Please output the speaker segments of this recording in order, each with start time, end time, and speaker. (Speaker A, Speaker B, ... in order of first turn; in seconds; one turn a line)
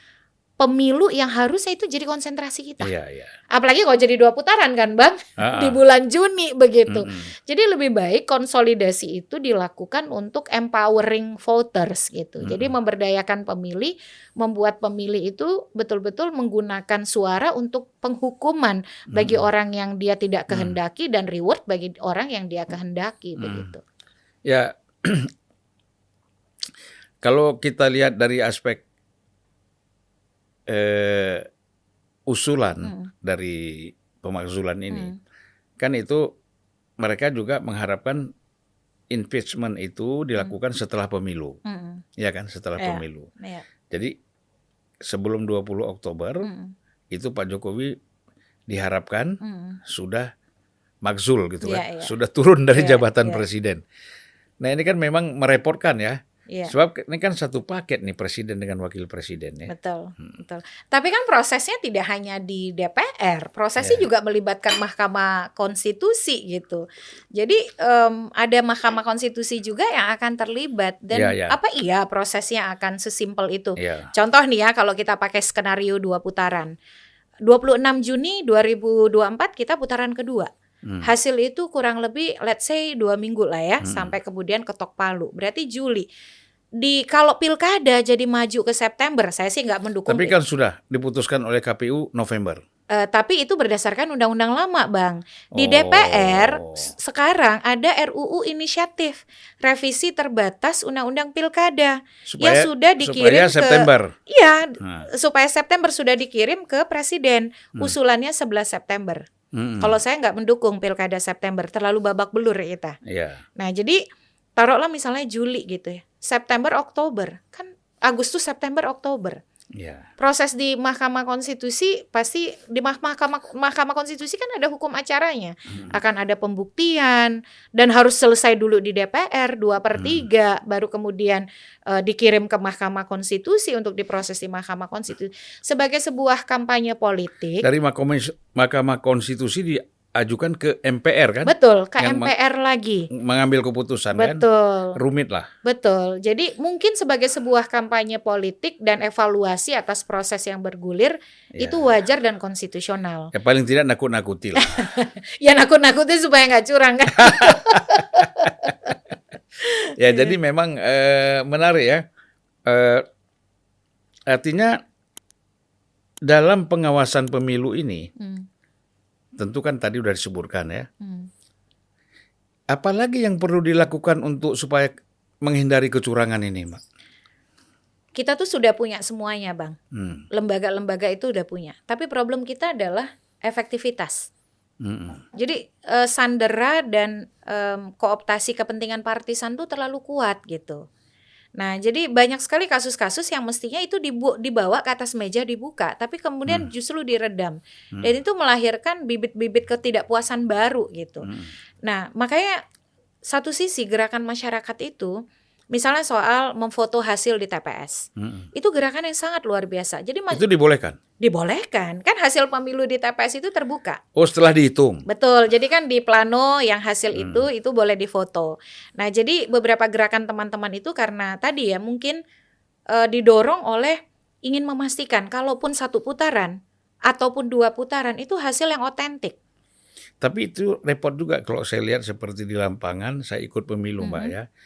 Speaker A: 0.6-2.9
Speaker B: 2.8-3.3
Speaker A: 3.5-23.8
Speaker B: 5.4-5.8
Speaker B: 6.9-7.3
Speaker B: 12.4-12.7
Speaker B: 19.1-19.5
Speaker B: 20.5-20.8
Speaker B: 23.4-23.7
Speaker B: 24.4-25.3
Speaker B: 27.2-28.8
Speaker B: 30.7-31.5
Speaker B: 32.3-35.1
Speaker A: 32.8-33.1
Speaker A: 34.9-35.2
Speaker B: 35.8-36.3
Speaker B: 37.0-38.3
Speaker B: 39.1-41.6
Speaker A: 41.6-42.0
Speaker B: 42.2-43.3
Speaker A: 42.8-43.6
Speaker B: 45.0-46.5
Speaker A: 46.4-46.7
Speaker B: 47.1-48.0
Speaker B: 48.7-50.3
Speaker A: 49.4-49.8
Speaker B: 51.0-53.8
Speaker A: 51.6-52.1
Speaker A: 52.7-53.5
Speaker B: 54.6-60.4
Speaker A: 56.5-56.8
Speaker A: 59.7-76.7
Speaker B: 63.8-64.0
Speaker B: 71.1-71.6
Speaker B: 73.8-74.1
Speaker A: 77.4-80.5
Speaker A: 81.0-86.1
Speaker B: 83.8-84.1
Speaker A: 86.8-90.3
Speaker B: 90.1-92.6
Speaker A: 92.9-109.3
Speaker B: 95.6-96.9
Speaker B: 102.3-104.2
Speaker B: 104.8-105.1
Speaker B: 109.5-110.0
Speaker A: 109.8-113.0
Speaker B: 113.1-113.4
Speaker A: 113.6-114.0
Speaker A: 114.6-119.4
Speaker B: 119.8-120.1
Speaker A: 120.2-137.7
Speaker B: 129.9-130.3
Speaker B: 137.6-142.3
Speaker A: 141.4-143.1
Speaker B: 143.1-144.4
Speaker A: 144.1-145.0
Speaker B: 144.9-145.5
Speaker A: 145.6-153.3
Speaker B: 151.6-151.9
Speaker B: 153.3-154.9
Speaker A: 154.6-159.0
Speaker B: 157.2-158.5
Speaker A: 159.6-160.3
Speaker B: 160.0-162.1
Speaker B: 162.7-163.1
Speaker B: 164.3-164.8
Speaker B: 166.3-168.1
Speaker A: 168.2-168.5
Speaker B: 169.4-170.9
Speaker A: 171.0-171.3
Speaker B: 172.7-174.9
Speaker B: 175.4-176.8
Speaker A: 178.2-179.8
Speaker B: 179.9-180.3
Speaker A: 180.3-184.3
Speaker B: 184.8-185.2
Speaker A: 185.3-190.8
Speaker A: 191.6-201.3
Speaker B: 201.2-201.5
Speaker A: 201.8-202.6
Speaker A: 203.3-205.2
Speaker A: 205.7-210.4
Speaker B: 208.2-208.5
Speaker B: 210.3-211.0
Speaker A: 211.2-214.0
Speaker B: 214.2-215.0
Speaker A: 215.1-222.2
Speaker B: 217.2-217.5
Speaker A: 222.9-226.6
Speaker A: 227.1-229.4
Speaker B: 230.2-234.4
Speaker A: 234.0-234.3